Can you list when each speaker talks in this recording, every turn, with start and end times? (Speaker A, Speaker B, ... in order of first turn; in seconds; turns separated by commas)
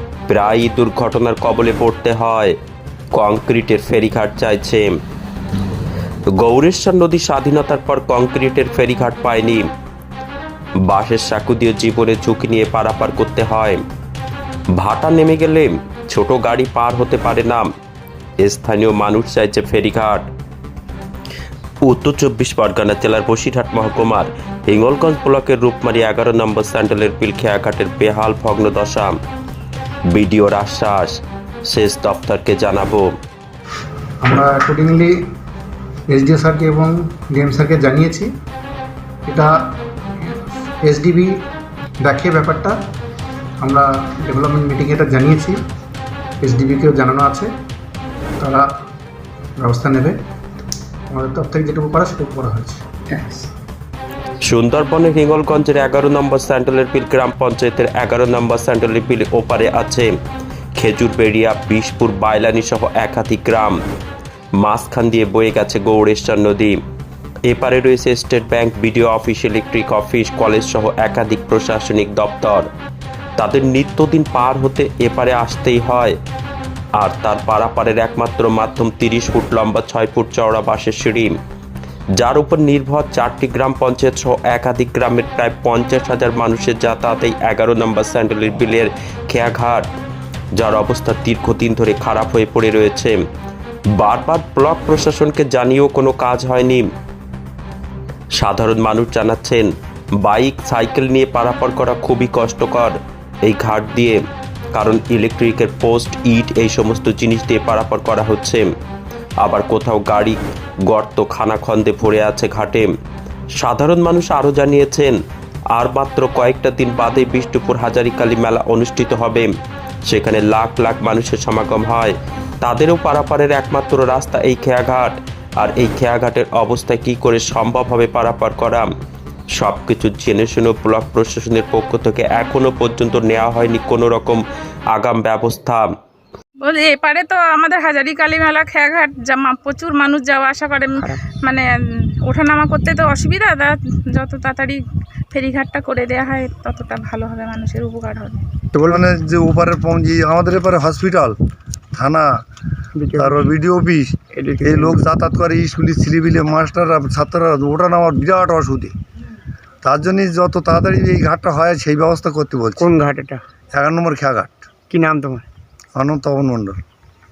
Speaker A: 0.3-2.6, Speaker A: 3.1-4.9, Speaker A: 6.3-9.7, Speaker A: 10.9-13.8, Speaker A: 14.7-17.7, Speaker A: 18.4-20.3, Speaker A: 21.8-29.2, Speaker A: 30.1-33.2, Speaker B: 34.2-35.2, Speaker B: 36.1-38.3, Speaker B: 39.3-39.5, Speaker B: 40.2-41.3, Speaker B: 42.0-42.8, Speaker B: 43.6-45.6, Speaker B: 46.4-47.5, Speaker B: 48.4-48.7, Speaker B: 49.6-50.2, Speaker B: 51.1-53.5, Speaker A: 54.5-60.1, Speaker A: 60.8-63.8, Speaker A: 64.6-66.8, Speaker A: 67.5-72.7, Speaker A: 73.4-76.2, Speaker A: 77.0-81.4, Speaker A: 82.2-89.9, Speaker A: 90.6-93.2, Speaker A: 93.9-96.9, Speaker A: 98.4-104.2, Speaker A: 104.7-108.7, Speaker A: 109.4-112.9, Speaker A: 113.6-115.2, Speaker A: 115.7-119.5, Speaker A: 120.1-128.9, Speaker A: 129.5-135.9, Speaker C: 136.6-141.6, Speaker D: 140.9-141.2, Speaker C: 142.3-144.8, Speaker C: 145.3-148.4, Speaker D: 148.7-149.0, Speaker E: 148.8-151.4, Speaker E: 151.9-152.4, Speaker D: 152.9-153.5, Speaker E: 153.2-158.9, Speaker D: 154.3-155.0, Speaker E: 159.8-162.9, Speaker D: 162.8-163.4, Speaker E: 163.7-164.6, Speaker D: 164.9-165.4, Speaker E: 166.0-166.8